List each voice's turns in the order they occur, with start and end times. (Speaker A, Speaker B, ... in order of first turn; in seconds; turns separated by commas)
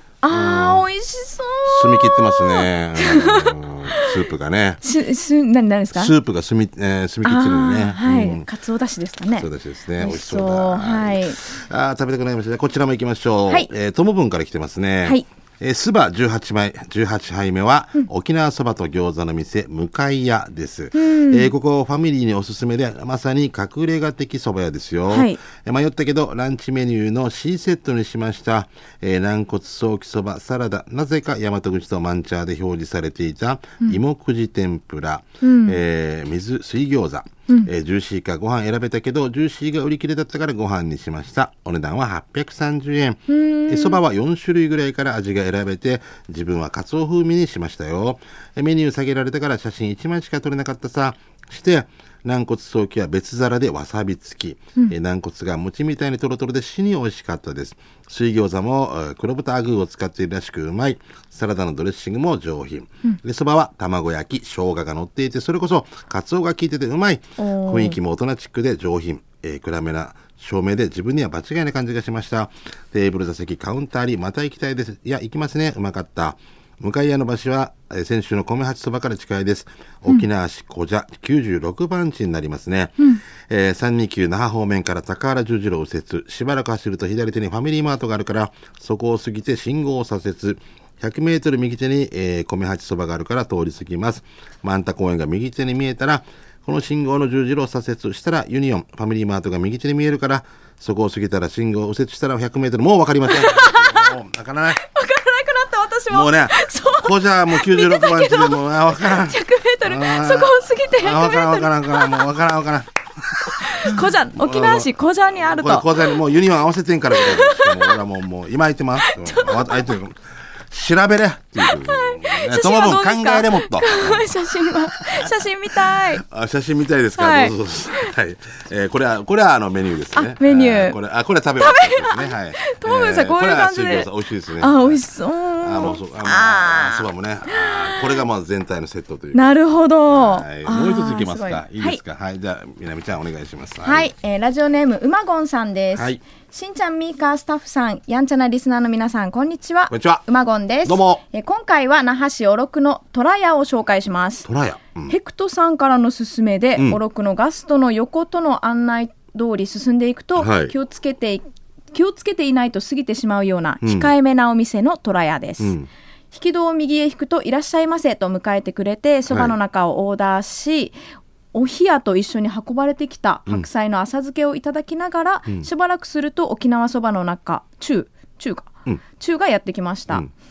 Speaker A: 0.2-3.5, Speaker B: 0.3-0.9, Speaker B: 1.7-4.8, Speaker A: 4.8-6.1, Speaker B: 6.0-8.5, Speaker A: 7.2-9.5, Speaker B: 9.4-104.8, Speaker A: 10.0-11.4, Speaker A: 20.9-21.5, Speaker A: 25.1-25.4, Speaker A: 35.4-35.8, Speaker A: 43.3-44.0, Speaker A: 67.4-68.0, Speaker A: 103.3-104.1, Speaker A: 104.8-112.2, Speaker B: 106.1-112.9, Speaker A: 113.6-115.9, Speaker B: 113.7-120.2, Speaker A: 117.2-118.0, Speaker A: 119.3-119.9, Speaker B: 120.7-124.3, Speaker A: 121.9-126.2, Speaker B: 125.0-125.3, Speaker B: 125.9-135.0, Speaker A: 127.2-127.5, Speaker A: 130.2-131.0, Speaker A: 131.6-134.1, Speaker A: 134.6-138.2, Speaker B: 135.6-139.5, Speaker A: 139.3-142.0, Speaker B: 140.1-144.1, Speaker A: 143.8-154.5, Speaker B: 145.9-146.2, Speaker B: 149.9-150.2, Speaker B: 150.8-151.2, Speaker B: 154.4-155.2, Speaker A: 155.1-165.7, Speaker B: 160.4-160.7, Speaker B: 163.8-164.1, Speaker B: 165.6-165.9, Speaker A: 166.3-171.0, Speaker B: 169.3-169.6, Speaker A: 171.5-180.2